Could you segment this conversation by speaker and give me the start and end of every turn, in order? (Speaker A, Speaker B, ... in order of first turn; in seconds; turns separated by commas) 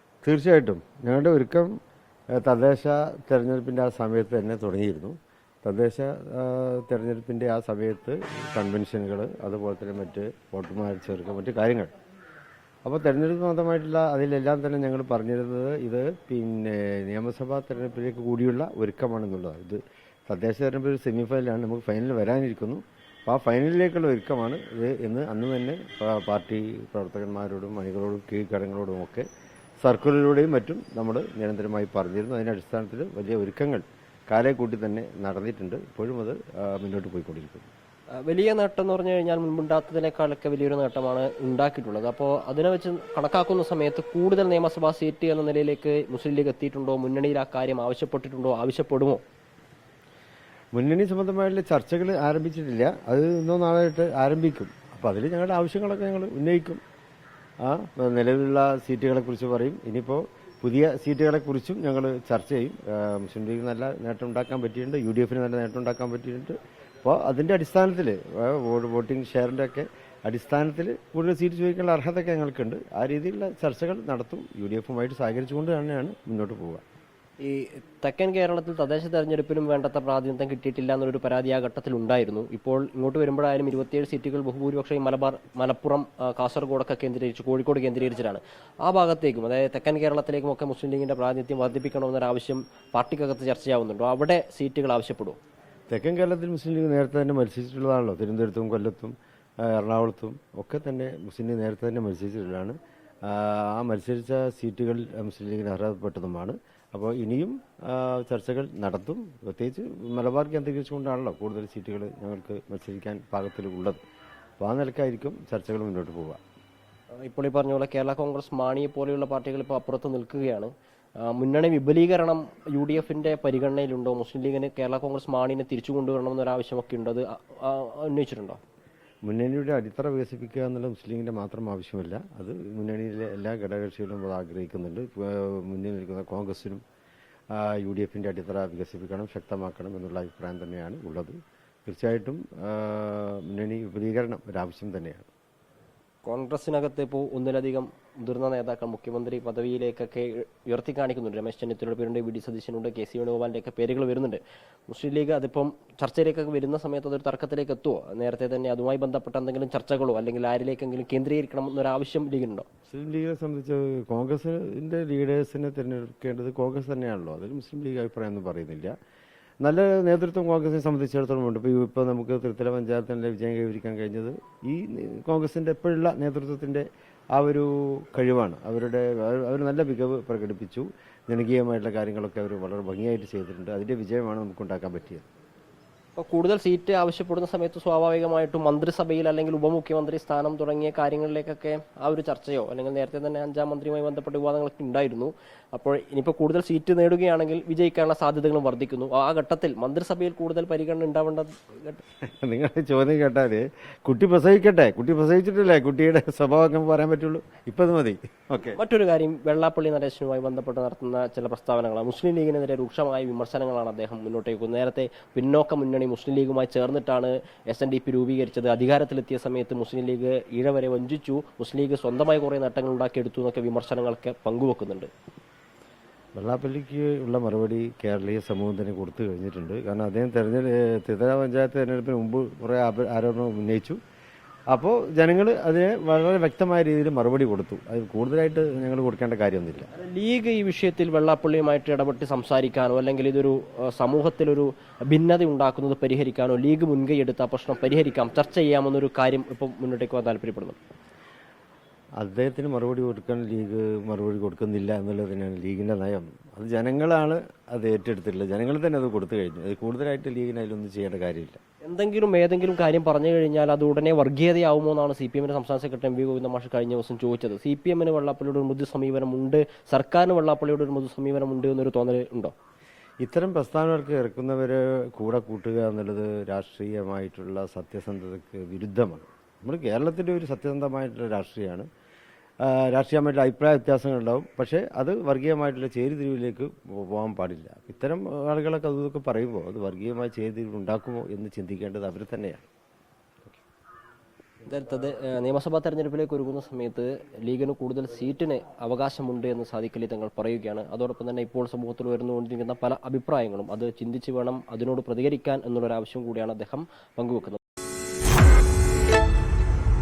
Speaker A: 0.2-1.7, Speaker A: 2.3-11.9, Speaker A: 12.8-29.2, Speaker A: 29.8-37.7, Speaker B: 38.2-49.2, Speaker A: 50.7-56.8, Speaker A: 57.6-76.8, Speaker B: 77.4-95.4, Speaker A: 95.9-114.0, Speaker A: 114.6-116.4, Speaker B: 117.2-128.6, Speaker A: 129.2-136.8, Speaker A: 137.5-145.3, Speaker B: 146.2-162.7, Speaker A: 162.9-168.9, Speaker A: 169.6-185.3, Speaker B: 186.2-202.0, Speaker A: 202.2-208.8, Speaker B: 208.7-225.1, Speaker A: 226.3-234.0, Speaker A: 234.7-239.9, Speaker B: 239.9-250.8, Speaker A: 252.2-261.6, Speaker B: 261.8-272.5, Speaker A: 273.2-281.9, Speaker A: 282.6-292.7, Speaker B: 294.6-307.6